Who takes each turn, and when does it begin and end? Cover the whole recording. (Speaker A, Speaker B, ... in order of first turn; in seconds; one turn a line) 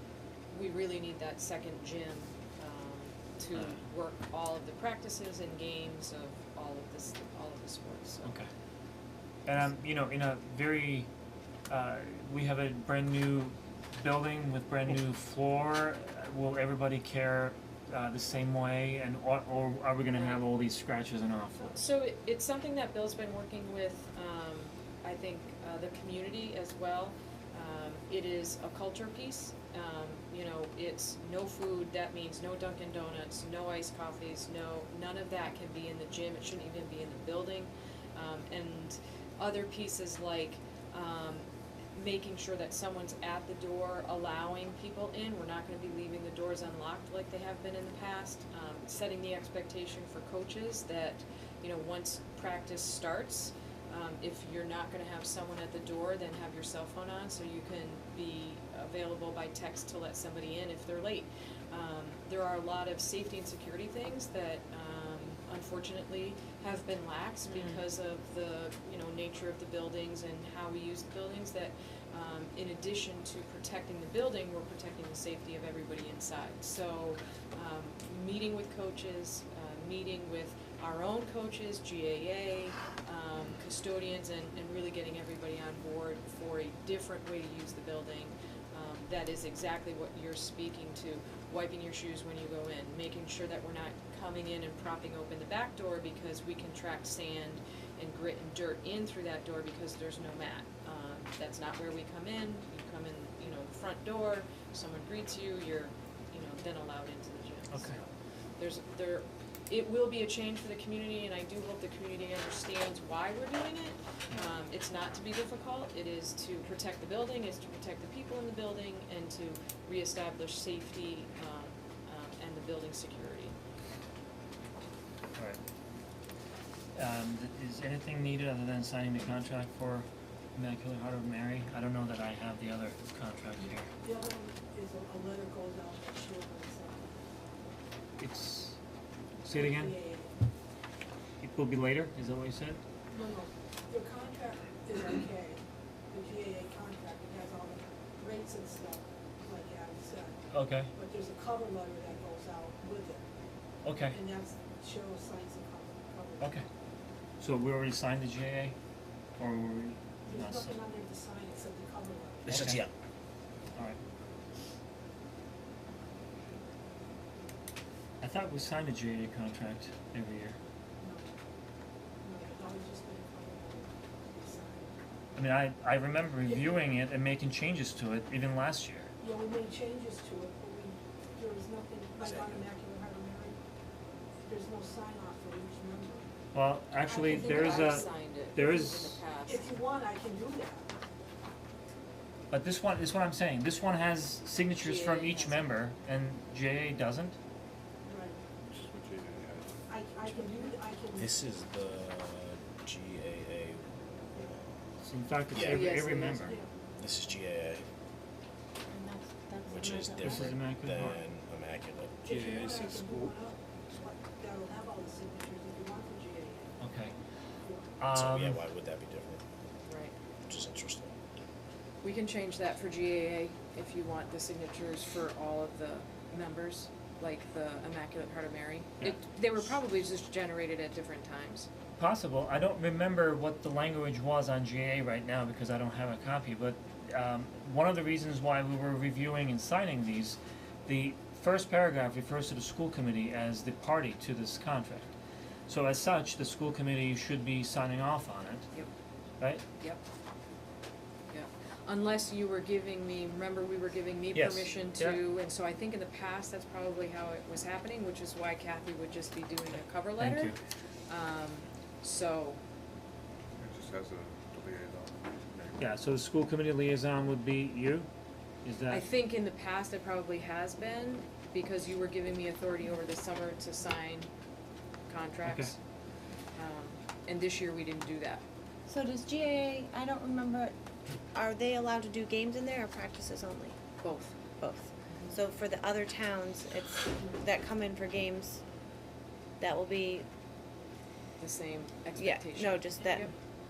Speaker A: 0.5-8.3
Speaker B: 3.5-3.8
Speaker B: 8.2-8.5
Speaker B: 9.5-11.1
Speaker B: 11.7-21.9
Speaker A: 20.1-20.4
Speaker A: 21.7-123.6
Speaker B: 107.7-108.0
Speaker B: 127.0-133.9
Speaker C: 133.6-137.3
Speaker B: 138.2-138.8
Speaker B: 139.4-140.0
Speaker C: 139.5-140.4
Speaker B: 141.4-142.8
Speaker C: 143.1-150.4
Speaker B: 150.5-150.9
Speaker C: 150.9-153.2
Speaker B: 153.8-154.2
Speaker C: 154.1-156.6
Speaker B: 156.4-156.7
Speaker B: 157.4-158.8
Speaker B: 159.4-160.8
Speaker C: 160.3-162.7
Speaker B: 162.5-162.8
Speaker D: 162.5-162.9
Speaker B: 168.2-170.6
Speaker C: 171.0-171.4
Speaker C: 172.2-174.9
Speaker B: 175.3-179.1
Speaker C: 176.4-176.8
Speaker C: 179.2-183.6
Speaker D: 182.2-182.6
Speaker C: 184.4-186.3
Speaker B: 186.5-189.2
Speaker C: 187.1-190.9
Speaker A: 187.2-189.7
Speaker B: 192.5-197.4
Speaker A: 194.8-195.6
Speaker C: 198.1-198.4
Speaker E: 198.7-199.7
Speaker C: 199.9-201.3
Speaker D: 201.2-204.7
Speaker B: 205.0-206.6
Speaker D: 205.5-205.9
Speaker A: 205.6-206.6
Speaker C: 206.4-206.7
Speaker D: 207.0-207.8
Speaker F: 208.9-210.4
Speaker D: 209.7-213.0
Speaker B: 210.2-211.2
Speaker C: 212.2-216.7
Speaker B: 212.3-213.3
Speaker B: 216.8-217.2
Speaker C: 217.6-217.9
Speaker B: 218.0-218.6
Speaker D: 218.1-219.4
Speaker A: 219.9-220.2
Speaker D: 220.5-221.1
Speaker A: 222.0-231.7
Speaker B: 232.0-245.1
Speaker B: 245.7-248.7
Speaker B: 249.4-249.7
Speaker A: 251.3-260.5
Speaker B: 254.3-255.2
Speaker B: 260.2-260.6
Speaker A: 261.1-262.6
Speaker E: 263.6-265.8
Speaker B: 265.8-268.1
Speaker B: 268.6-269.1
Speaker A: 268.9-274.3
Speaker A: 275.1-275.8
Speaker B: 275.4-275.7
Speaker A: 276.6-278.4
Speaker F: 278.9-280.7
Speaker F: 281.3-283.8
Speaker A: 284.0-284.4
Speaker F: 284.6-288.6
Speaker F: 289.6-290.3
Speaker A: 291.4-293.3
Speaker F: 292.2-293.3